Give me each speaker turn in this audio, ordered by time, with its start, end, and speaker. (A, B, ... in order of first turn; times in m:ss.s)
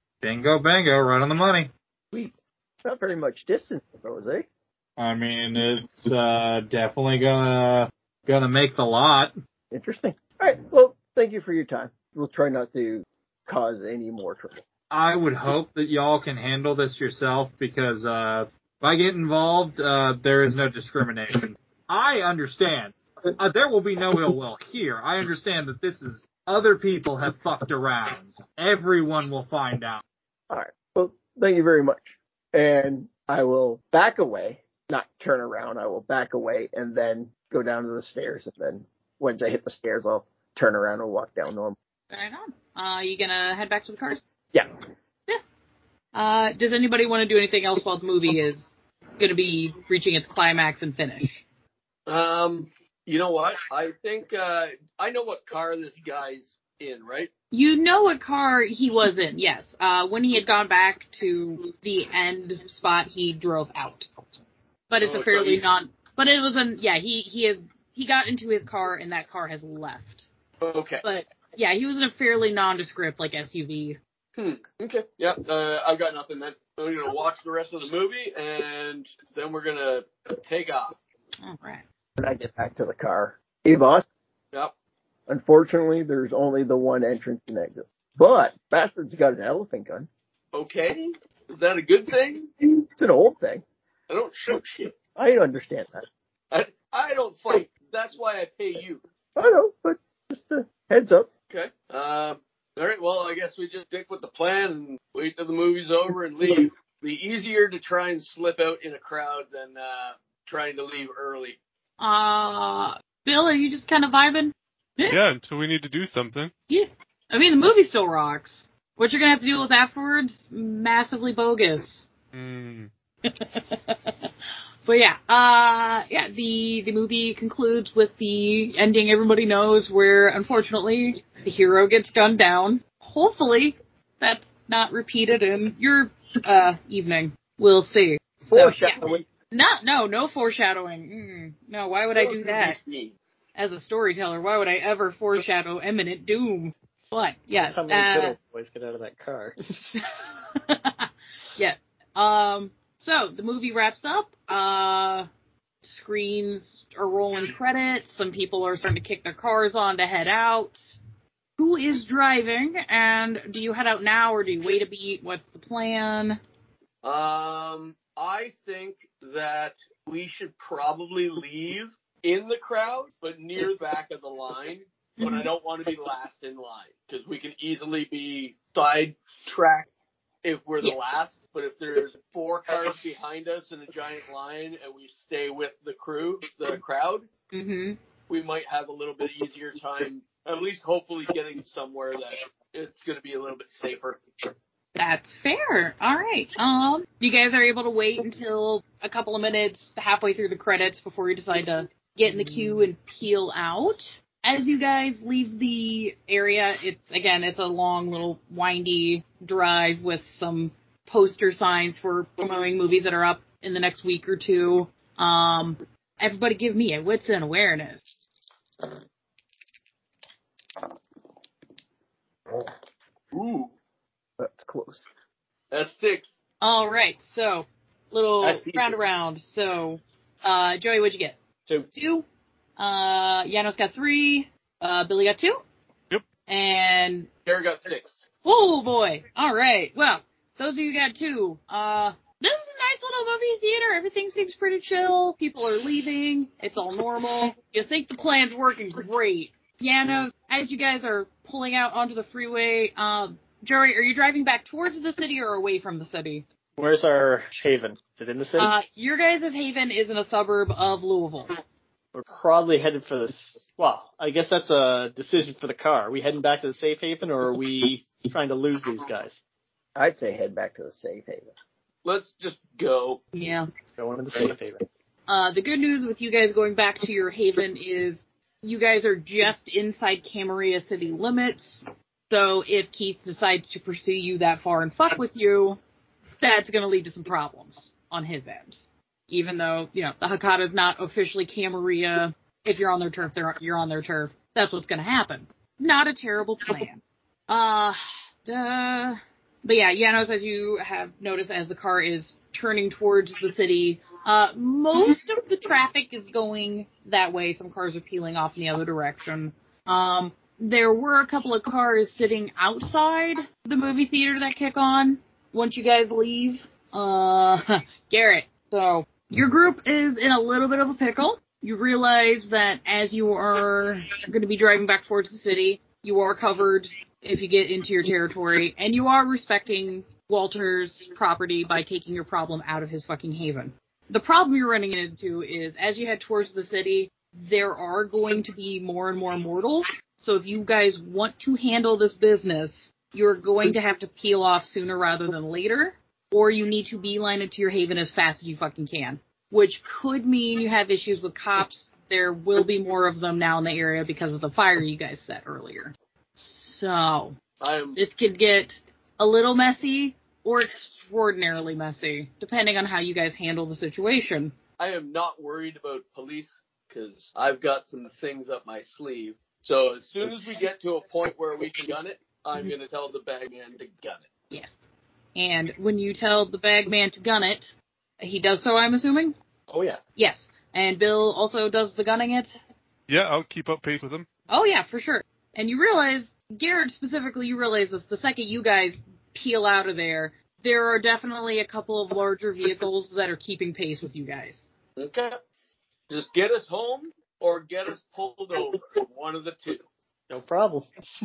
0:00.2-0:01.7 A
0:02.1-0:04.5 B
0:05.0-0:09.3 A
0:09.7-0:14.6 B
0:14.9-0:30.0 A
0:30.5-0:41.8 B
0:42.1-0:44.2 C
0:46.1-0:51.4 C
0:52.1-0:57.3 D
0:57.5-1:04.1 C
1:04.9-1:10.3 C
1:05.0-1:05.6 D
1:10.6-1:11.0 D
1:11.0-1:14.0 C
1:14.4-1:21.0 D
1:21.4-1:21.8 C
1:22.2-1:24.0 B
1:25.3-1:30.1 B
1:30.5-1:32.5 D
1:32.9-1:33.6 B
1:34.1-1:34.9 D
1:35.2-1:36.1 B
1:36.5-1:39.0 D
1:39.4-1:41.3 B
1:41.5-1:51.6 D
1:52.0-1:55.2 C
1:55.1-1:56.5 E
1:56.7-2:02.0 C
2:02.3-2:02.9 E
2:03.2-2:04.2 C
2:04.8-2:22.8 C
2:18.4-2:19.2 B
2:22.6-2:23.1 D
2:23.6-2:28.4 C
2:27.6-2:30.0 F
2:30.5-2:35.3 C
2:35.8-2:41.0 C
2:41.6-2:46.4 C
2:47.0-2:59.9 D
2:55.2-2:55.5 C
3:00.4-3:07.3 D
3:07.5-3:08.0 C
3:08.3-3:14.2 D
3:15.0-3:38.0 C
3:43.3-3:43.7 D
3:44.4-3:45.1 B
3:45.7-3:46.3 D
3:46.6-3:51.4 C
3:48.4-3:49.0 D
3:51.9-3:52.2 C
3:52.8-3:55.6 C
3:56.5-3:57.3 C
3:57.4-3:58.2 D
3:58.4-4:16.4 C
4:16.8-4:18.7 F
4:18.6-4:21.5 C
4:22.1-4:29.4 F
4:30.0-4:31.5 B
4:32.0-4:33.2 D
4:33.3-4:33.7 C
4:34.0-4:34.8 F
4:35.3-4:45.8 C
4:46.4-4:48.8 C
4:49.3-5:57.3 C
5:57.6-5:58.0 D
5:58.0-6:04.5 C
6:04.8-6:14.3 D
6:15.3-6:19.3 C
6:19.7-6:20.0 F
6:20.2-6:22.6 C
6:23.1-6:24.3 E
6:24.5-6:34.7 C
6:35.0-6:35.3 D
6:36.1-6:39.8 D
6:40.3-6:40.9 F